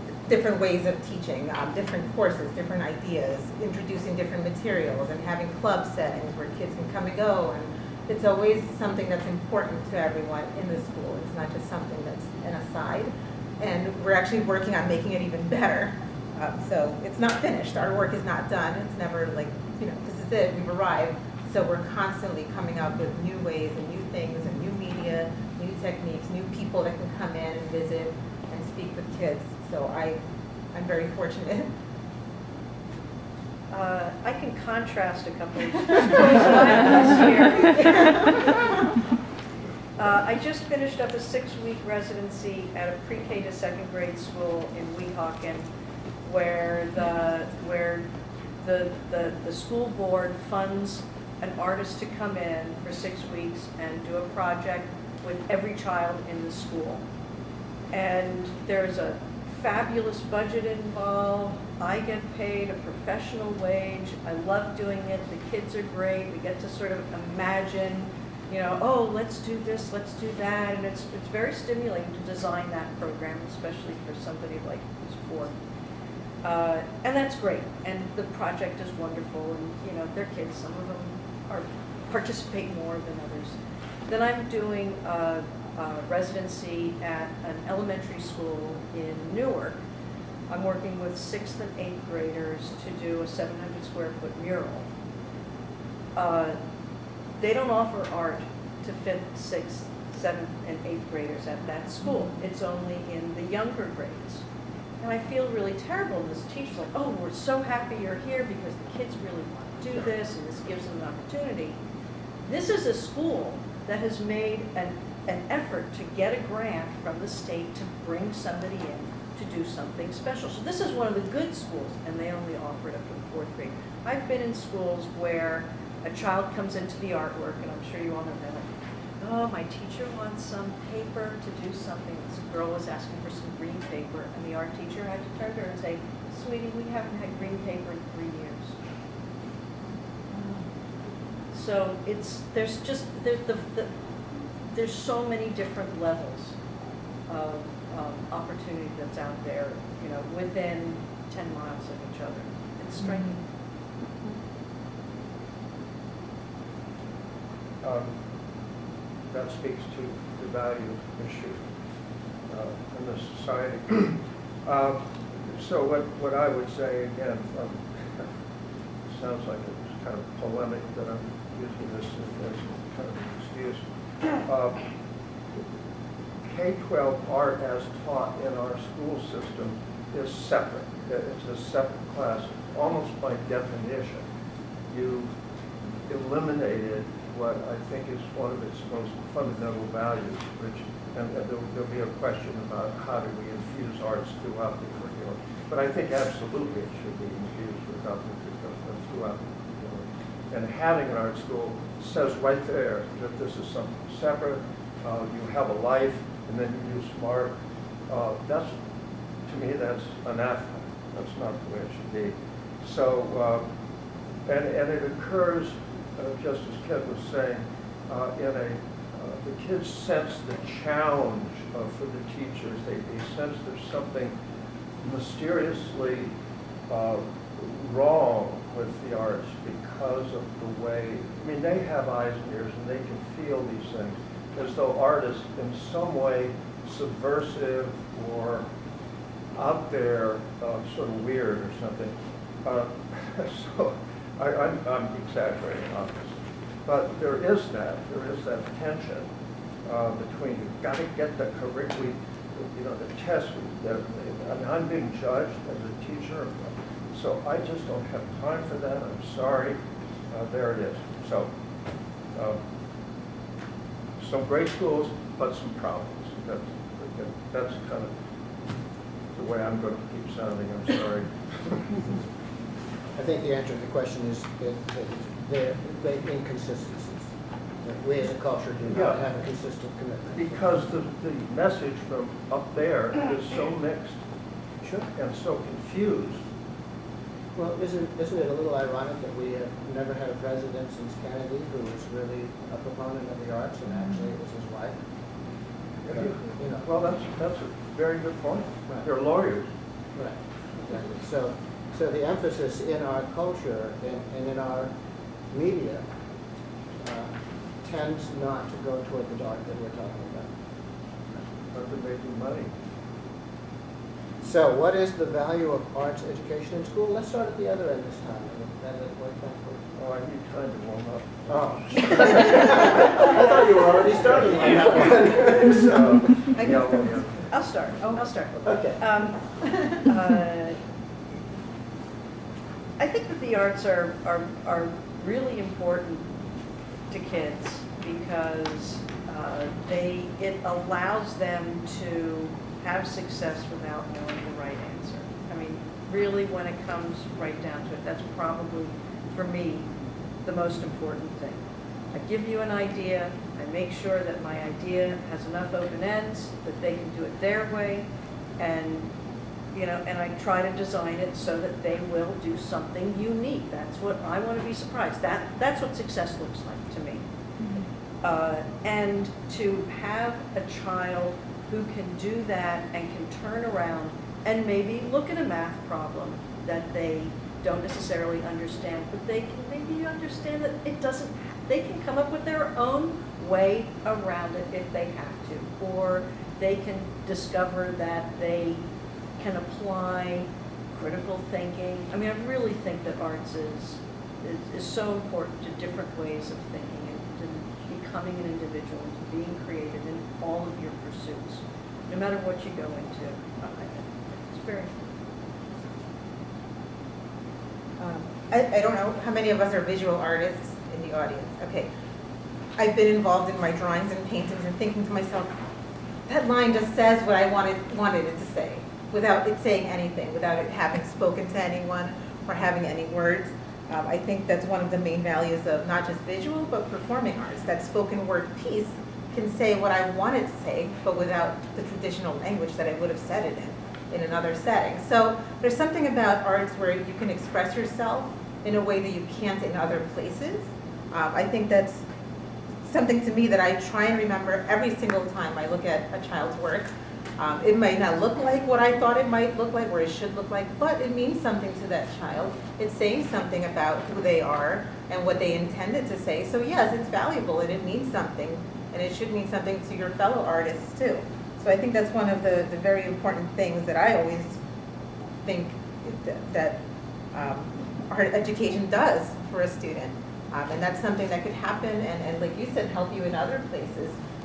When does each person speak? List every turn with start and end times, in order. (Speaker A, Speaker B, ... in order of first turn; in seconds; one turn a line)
Speaker A: 0.3-30.2
Speaker A: 30.7-31.7
Speaker B: 33.7-38.7
Speaker B: 40.0-45.7
Speaker B: 46.2-48.1
Speaker B: 48.6-57.0
Speaker B: 57.9-75.5
Speaker B: 76.4-83.6
Speaker B: 84.1-89.8
Speaker B: 90.5-94.9
Speaker B: 96.2-96.6
Speaker B: 97.4-104.4
Speaker B: 105.0-111.8
Speaker B: 112.5-128.7
Speaker B: 129.2-138.8
Speaker B: 141.5-143.9
Speaker B: 144.7-146.6
Speaker B: 147.3-153.4
Speaker C: 157.8-158.1
Speaker C: 159.3-161.6
Speaker C: 162.5-168.3
Speaker C: 169.1-173.8
Speaker C: 174.4-174.8
Speaker C: 176.4-184.2
Speaker C: 184.9-185.3
Speaker C: 186.1-207.5
Speaker C: 208.1-208.7
Speaker C: 209.5-213.6
Speaker C: 214.5-224.3
Speaker C: 225.0-226.3
Speaker C: 226.9-238.7
Speaker C: 239.6-249.3
Speaker C: 249.8-259.8
Speaker C: 260.3-261.5
Speaker C: 264.2-268.1
Speaker C: 269.3-272.0
Speaker D: 273.2-277.3
Speaker D: 277.8-280.6
Speaker C: 278.9-279.2
Speaker C: 280.4-284.2
Speaker C: 285.1-286.4
Speaker D: 287.6-294.9
Speaker C: 296.1-299.7
Speaker D: 296.1-296.8
Speaker D: 300.2-304.9
Speaker D: 305.5-306.1
Speaker D: 307.0-310.5
Speaker C: 311.7-312.7
Speaker D: 314.4-319.8
Speaker C: 320.0-323.3
Speaker D: 321.5-326.2
Speaker C: 324.4-327.5
Speaker B: 327.5-329.4
Speaker D: 328.6-329.0
Speaker B: 329.9-330.8
Speaker B: 333.0-336.3
Speaker B: 337.1-349.9
Speaker B: 350.4-351.6
Speaker B: 352.1-358.1
Speaker B: 358.6-359.1
Speaker B: 359.7-367.2
Speaker B: 368.2-388.8
Speaker B: 389.4-405.0
Speaker A: 408.0-411.9
Speaker A: 412.8-415.5
Speaker A: 416.3-442.1
Speaker A: 442.8-464.6
Speaker A: 465.4-466.8
Speaker A: 467.3-474.2